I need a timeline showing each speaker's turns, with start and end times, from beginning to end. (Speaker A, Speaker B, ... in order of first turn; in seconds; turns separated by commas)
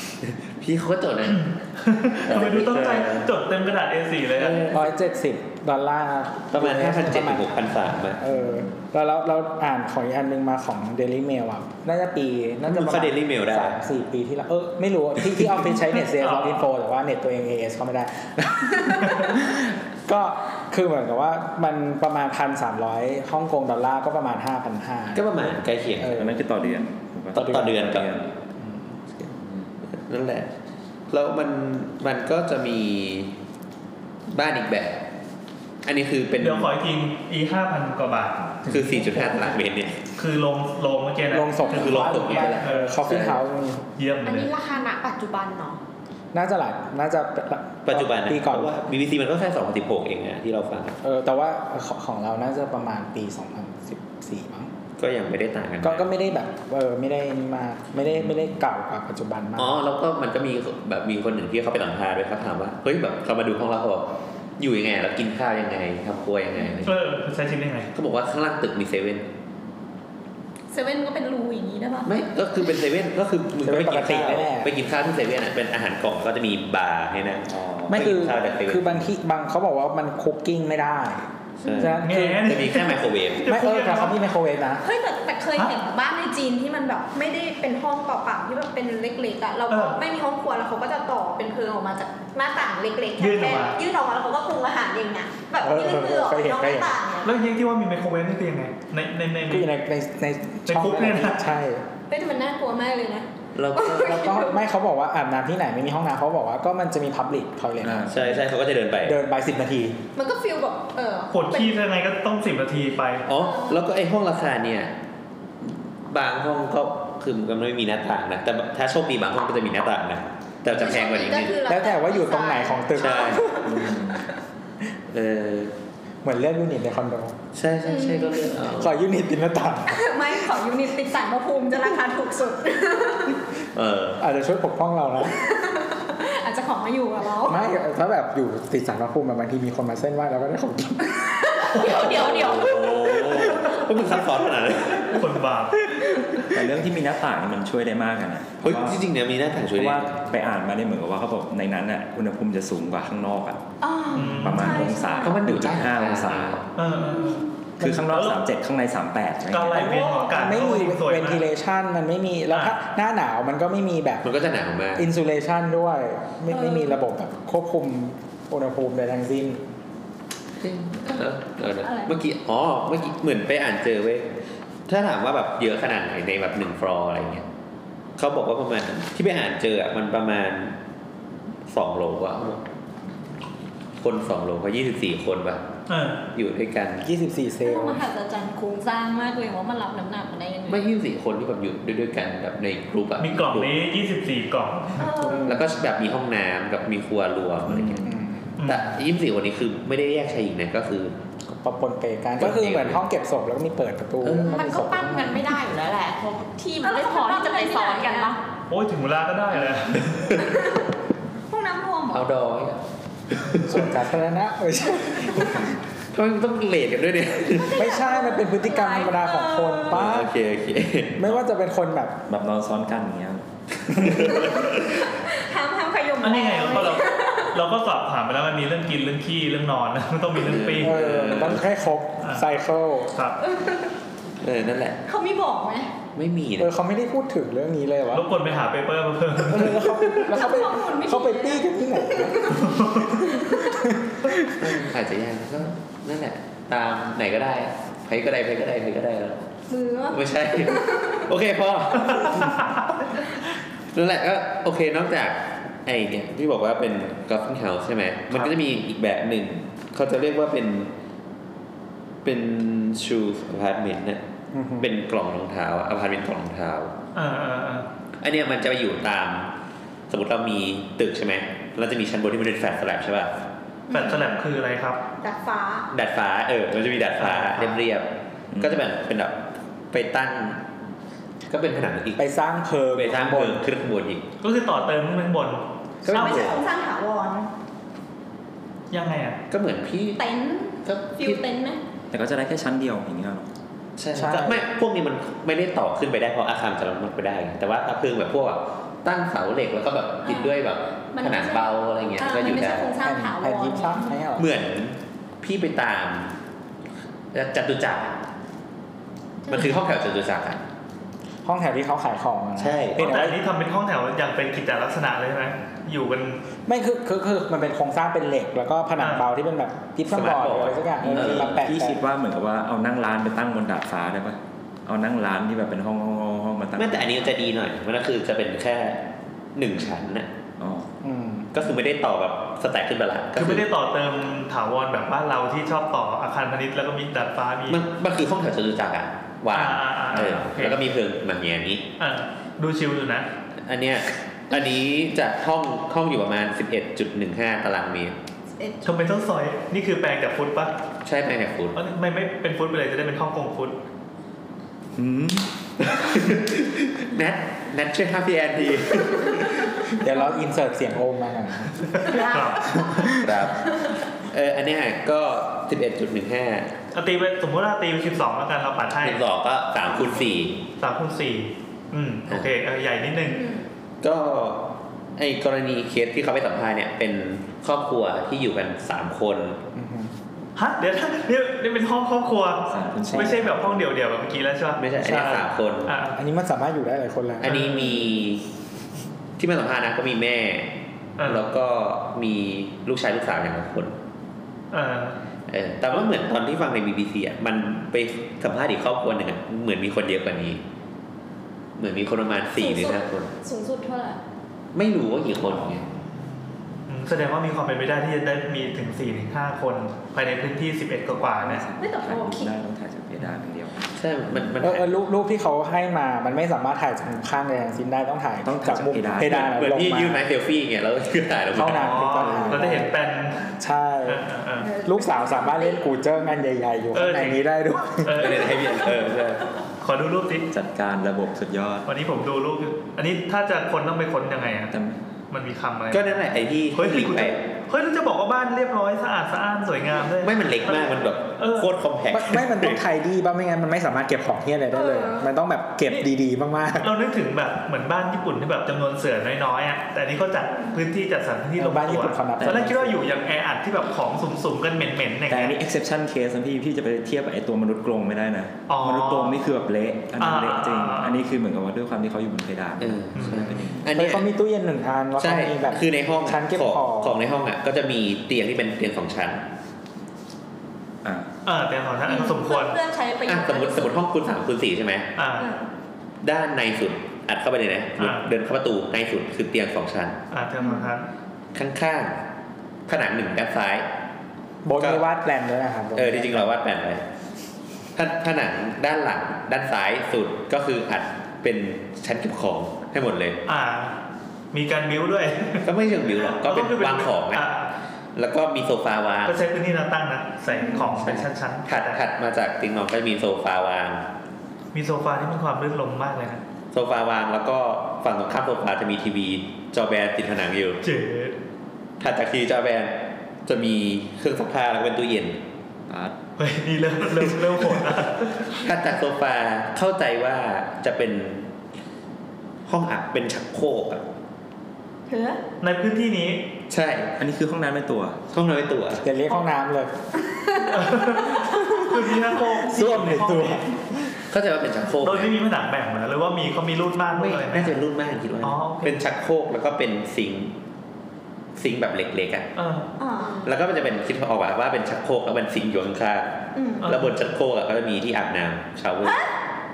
Speaker A: 0.2-1.5, Speaker B: 1.3-4.8, Speaker A: 2.3-3.3, Speaker C: 4.7-7.4, Speaker A: 6.5-8.2, Speaker C: 8.2-26.3, Speaker D: 8.3-8.7, Speaker A: 12.7-13.8, Speaker B: 16.1-16.6, Speaker A: 25.1-26.2, Speaker D: 26.0-28.3, Speaker A: 27.3-28.1, Speaker C: 28.6-28.9, Speaker D: 29.1-29.7, Speaker A: 29.9-30.5, Speaker A: 31.1-33.3, Speaker A: 34.3-35.0, Speaker A: 35.8-36.7, Speaker B: 36.4-39.0, Speaker A: 38.7-40.0, Speaker B: 40.2-43.0, Speaker C: 41.3-43.8, Speaker A: 41.6-43.4, Speaker B: 44.0-44.5, Speaker E: 44.2-45.8, Speaker C: 46.3-48.7, Speaker A: 47.9-51.0, Speaker C: 51.0-54.7, Speaker A: 55.0-56.1, Speaker C: 55.8-59.7, Speaker A: 59.6-64.0, Speaker A: 64.6-67.0, Speaker B: 66.8-67.9, Speaker A: 67.9-69.2, Speaker F: 70.7-72.1, Speaker A: 72.0-79.1, Speaker C: 73.6-74.7, Speaker D: 77.5-78.2, Speaker C: 77.9-81.3, Speaker A: 81.6-83.5, Speaker C: 81.8-82.5, Speaker B: 81.9-84.2, Speaker C: 83.5-84.8, Speaker F: 84.8-97.3, Speaker B: 89.7-90.0, Speaker B: 93.2-93.8, Speaker C: 95.6-96.9, Speaker B: 97.2-99.7, Speaker C: 99.5-101.8, Speaker B: 100.7-101.4, Speaker F: 102.1-104.6, Speaker A: 103.5-104.2, Speaker C: 104.0-108.1, Speaker D: 107.8-108.4, Speaker A: 108.1-109.2, Speaker C: 109.0-110.0, Speaker F: 110.1-111.8, Speaker B: 111.3-113.3, Speaker A: 113.3-114.9, Speaker F: 113.3-113.8, Speaker A: 115.6-121.5, Speaker F: 120.7-124.2, Speaker C: 121.7-123.7, Speaker A: 123.0-123.4, Speaker D: 123.6-124.2, Speaker A: 125.1-125.7, Speaker C: 126.2-127.3, Speaker A: 127.5-129.0, Speaker F: 127.8-128.5, Speaker C: 128.8-130.2, Speaker F: 129.9-133.4, Speaker A: 133.7-134.2, Speaker C: 134.2-135.3, Speaker F: 135.3-137.6, Speaker C: 137.5-141.3, Speaker F: 141.4-143.6, Speaker A: 141.7-145.2, Speaker B: 145.0-146.5, Speaker D: 146.5-149.0, Speaker A: 148.6-150.2, Speaker D: 149.7-153.6, Speaker F: 153.8-155.3, Speaker B: 154.1-154.9, Speaker D: 154.2-156.6, Speaker A: 155.2-156.7, Speaker B: 156.8-157.4, Speaker F: 156.9-157.5, Speaker C: 157.8-158.0, Speaker D: 157.8-160.0, Speaker B: 158.1-158.4, Speaker B: 159.5-161.4, Speaker F: 159.9-160.3, Speaker C: 160.3-164.2, Speaker B: 162.5-162.8, Speaker A: 164.2-165.1, Speaker C: 164.9-169.6, Speaker F: 166.5-167.0, Speaker A: 170.6-174.3, Speaker F: 171.8-172.1, Speaker A: 174.9-177.4, Speaker A: 178.2-180.8, Speaker A: 181.7-182.6, Speaker A: 184.0-185.6, Speaker B: 185.9-186.2, Speaker A: 186.3-187.0, Speaker C: 187.0-188.0, Speaker F: 187.6-190.8, Speaker A: 190.7-193.7, Speaker B: 193.2-195.1, Speaker F: 195.0-195.6, Speaker C: 195.2-195.6, Speaker A: 195.4-198.1, Speaker D: 197.7-198.1, Speaker C: 198.0-198.5, Speaker B: 198.6-198.9, Speaker A: 198.7-201.1, Speaker C: 201.4-205.4, Speaker A: 202.4-203.0, Speaker A: 204.2-204.7, Speaker E: 204.5-208.4, Speaker F: 206.8-208.3, Speaker B: 208.7-210.2, Speaker A: 210.0-210.4, Speaker F: 210.3-210.9, Speaker F: 211.5-212.3, Speaker A: 212.1-213.9, Speaker C: 213.7-215.5, Speaker A: 216.1-217.8, Speaker F: 217.5-220.0, Speaker C: 217.8-220.3, Speaker A: 219.9-221.4, Speaker C: 221.2-222.2, Speaker D: 222.3-223.4, Speaker C: 223.9-224.3, Speaker A: 223.9-225.0, Speaker F: 224.5-227.6, Speaker B: 226.2-231.0, Speaker A: 230.4-231.6, Speaker C: 230.8-233.1, Speaker B: 233.1-233.4, Speaker F: 233.4-233.9, Speaker A: 234.4-235.0, Speaker F: 235.1-235.9, Speaker A: 236.1-236.7, Speaker C: 236.6-238.3, Speaker B: 238.1-239.9, Speaker C: 239.4-244.6, Speaker F: 240.2-243.8, Speaker B: 242.5-243.1, Speaker A: 244.6-249.4, Speaker F: 249.7-251.2, Speaker A: 250.1-252.7, Speaker B: 252.1-252.8, Speaker A: 253.9-260.9, Speaker A: 262.2-264.2, Speaker C: 264.5-264.9, Speaker A: 264.8-266.9, Speaker B: 267.1-267.9, Speaker A: 268.2-269.5, Speaker A: 270.1-273.3, Speaker F: 273.9-274.4, Speaker B: 273.9-275.0, Speaker F: 275.2-275.9, Speaker A: 275.9-279.4, Speaker B: 277.2-277.8, Speaker D: 278.5-278.8, Speaker A: 279.9-280.6, Speaker A: 281.5-282.2, Speaker C: 282.2-283.6, Speaker A: 282.9-284.2, Speaker B: 284.4-285.6, Speaker A: 286.0-286.6, Speaker B: 286.1-286.5, Speaker F: 286.1-287.5, Speaker B: 288.9-289.4, Speaker A: 289.5-290.2, Speaker F: 290.2-291.8, Speaker A: 290.8-291.4, Speaker D: 292.1-293.5, Speaker A: 294.0-302.9, Speaker C: 294.1-294.6, Speaker F: 300.2-300.6, Speaker F: 301.1-304.2, Speaker C: 303.0-304.4, Speaker A: 304.4-306.3, Speaker A: 307.3-308.2, Speaker F: 309.5-309.8, Speaker A: 309.5-310.6, Speaker C: 311.4-313.4, Speaker A: 312.6-313.0, Speaker B: 313.0-316.4, Speaker C: 316.6-322.0, Speaker B: 319.0-319.3, Speaker A: 320.1-321.7, Speaker D: 321.0-327.3, Speaker A: 326.8-329.0, Speaker A: 329.6-330.3, Speaker D: 330.6-330.9, Speaker C: 331.0-331.5, Speaker A: 331.5-333.6, Speaker B: 333.4-337.8, Speaker A: 337.7-341.9, Speaker B: 339.5-340.8, Speaker D: 340.1-340.4, Speaker B: 342.0-343.2, Speaker A: 343.6-348.1, Speaker F: 348.6-349.0, Speaker B: 348.8-350.7, Speaker A: 351.0-351.8, Speaker B: 351.7-353.7, Speaker D: 354.9-355.5, Speaker A: 355.8-359.9, Speaker C: 360.0-362.1, Speaker B: 361.9-363.2, Speaker F: 362.0-363.0, Speaker A: 363.2-366.7, Speaker B: 366.9-369.2, Speaker A: 369.0-370.6, Speaker B: 370.7-373.4, Speaker F: 373.2-373.7, Speaker A: 374.0-374.6, Speaker A: 375.2-379.6, Speaker C: 379.7-380.1, Speaker B: 380.6-386.2, Speaker D: 382.7-383.9, Speaker C: 383.1-383.3, Speaker A: 384.8-385.9, Speaker C: 386.1-387.5, Speaker B: 387.4-388.0, Speaker A: 387.4-388.4, Speaker A: 389.4-390.7, Speaker B: 391.2-391.5, Speaker A: 391.2-394.0, Speaker B: 394.7-395.1, Speaker A: 395.5-400.6, Speaker A: 401.8-403.3, Speaker F: 402.6-404.2, Speaker A: 404.7-405.8, Speaker D: 405.5-405.8, Speaker B: 406.9-411.6, Speaker D: 411.1-413.8, Speaker F: 411.8-412.5, Speaker A: 413.9-415.0, Speaker C: 414.6-420.2, Speaker D: 418.4-419.5, Speaker A: 419.3-422.3, Speaker C: 421.5-422.9, Speaker B: 421.6-423.4, Speaker D: 422.3-422.7, Speaker C: 423.6-424.2, Speaker B: 424.1-424.7, Speaker F: 424.6-425.8, Speaker C: 424.8-428.2, Speaker B: 426.9-427.4, Speaker B: 428.0-428.7, Speaker A: 428.1-429.4, Speaker B: 429.8-430.4, Speaker D: 430.5-431.8, Speaker B: 431.9-434.7, Speaker D: 434.7-435.0, Speaker B: 435.3-436.1, Speaker A: 435.9-437.4, Speaker B: 436.7-441.7, Speaker A: 440.2-442.8, Speaker C: 442.1-446.9, Speaker F: 444.7-445.2, Speaker B: 446.8-455.5, Speaker C: 451.6-453.0, Speaker D: 452.4-452.7, Speaker D: 455.3-463.9, Speaker B: 458.7-459.4, Speaker B: 460.2-461.2, Speaker A: 462.8-464.3, Speaker B: 463.1-463.5, Speaker C: 463.9-467.2, Speaker A: 465.2-469.4, Speaker D: 471.0-471.3, Speaker B: 471.4-472.8, Speaker F: 472.0-473.9, Speaker A: 473.2-475.1, Speaker B: 475.2-475.5, Speaker F: 475.3-475.6, Speaker A: 476.2-480.2, Speaker B: 478.0-478.2, Speaker B: 480.3-481.0, Speaker F: 480.6-480.9, Speaker A: 481.5-482.2, Speaker A: 482.9-483.9, Speaker C: 484.6-486.5, Speaker A: 485.9-487.0, Speaker A: 487.9-493.4, Speaker B: 493.4-493.9, Speaker B: 494.5-497.7, Speaker A: 495.6-497.4, Speaker A: 498.1-499.4, Speaker B: 499.2-502.0, Speaker F: 500.5-501.0, Speaker A: 500.7-504.0, Speaker B: 504.7-506.4, Speaker A: 506.7-510.8, Speaker B: 510.8-511.4, Speaker A: 512.0-512.9, Speaker A: 513.5-515.4, Speaker D: 515.9-516.1, Speaker B: 516.4-518.5, Speaker A: 517.3-517.8, Speaker A: 518.5-521.5, Speaker A: 522.6-524.0, Speaker F: 525.1-525.4, Speaker B: 525.6-526.4, Speaker A: 526.7-527.1, Speaker D: 527.2-528.2, Speaker A: 528.3-529.0, Speaker C: 529.0-529.9, Speaker F: 530.3-530.6, Speaker B: 530.7-533.6, Speaker F: 531.4-532.0, Speaker C: 532.4-534.1, Speaker A: 534.3-535.3, Speaker B: 535.0-537.7, Speaker A: 537.2-540.5, Speaker B: 538.4-539.0, Speaker A: 541.5-542.5, Speaker B: 542.5-542.8, Speaker F: 543.0-543.4, Speaker E: 543.1-543.5, Speaker A: 543.4-549.2, Speaker F: 546.5-546.9, Speaker B: 546.8-547.1